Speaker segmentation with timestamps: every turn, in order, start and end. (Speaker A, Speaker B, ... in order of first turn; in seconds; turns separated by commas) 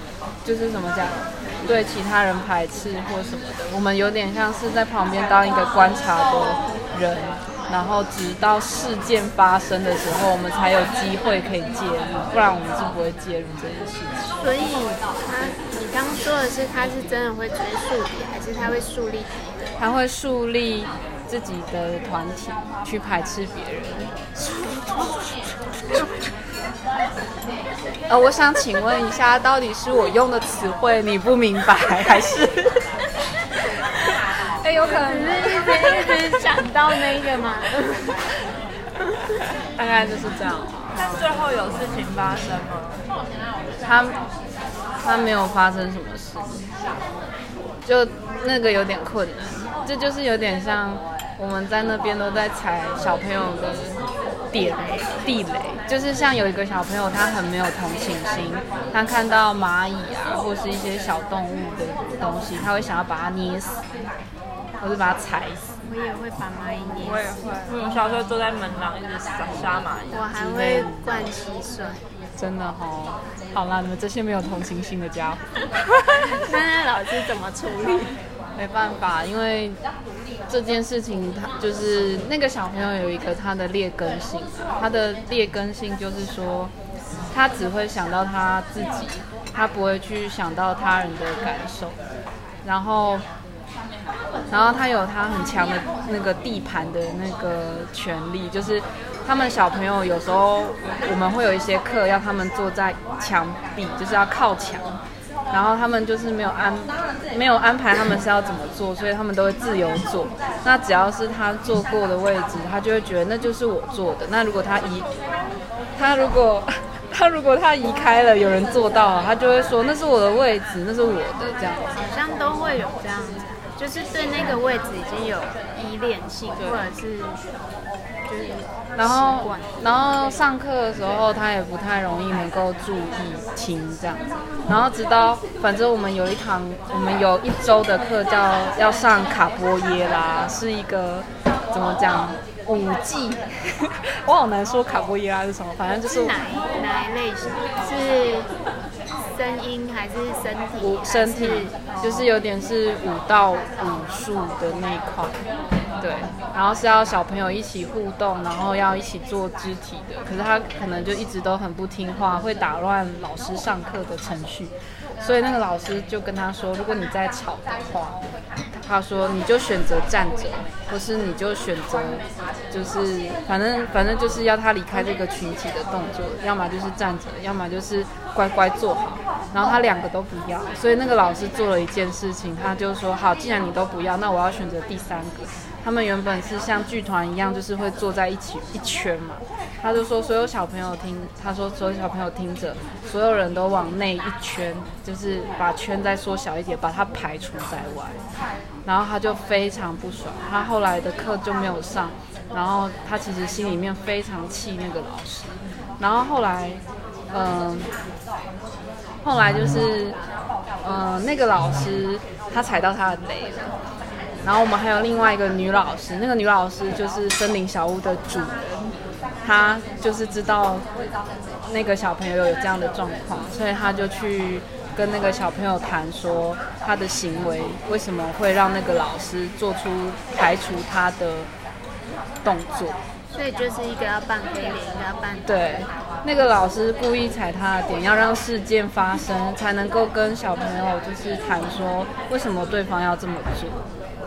Speaker A: 0.4-14.4, Speaker B: 14.4-19.6, Speaker A: 19.8-25.4, Speaker A: 28.1-32.8, Speaker A: 34.6-36.1, Speaker B: 34.8-38.1, Speaker A: 39.8-41.2, Speaker C: 40.9-43.0, Speaker A: 43.8-44.2, Speaker A: 45.0-46.6, Speaker A: 47.9-54.0, Speaker A: 54.5-63.8, Speaker A: 64.8-65.7, Speaker B: 65.8-67.4, Speaker C: 67.6-70.3, Speaker B: 70.1-72.0, Speaker A: 70.3-71.2, Speaker A: 72.4-75.4, Speaker B: 76.3-78.2, Speaker A: 78.5-79.8, Speaker A: 80.5-86.7, Speaker A: 87.3-92.0, Speaker A: 92.6-93.2, Speaker A: 94.5-105.0, Speaker A: 105.5-115.1, Speaker A: 116.0-122.0, Speaker B: 122.0-127.4, Speaker B: 128.3-129.7, Speaker A: 128.9-146.3, Speaker B: 146.1-148.5, Speaker B: 149.3-152.3, Speaker A: 150.8-155.4, Speaker A: 156.0-198.2, Speaker A: 198.8-207.9, Speaker A: 209.2-210.2, Speaker A: 210.8-213.7, Speaker A: 214.4-218.9, Speaker A: 219.4-220.8, Speaker A: 221.7-231.5, Speaker A: 232.4-233.0, Speaker B: 233.3-235.5, Speaker A: 235.4-243.9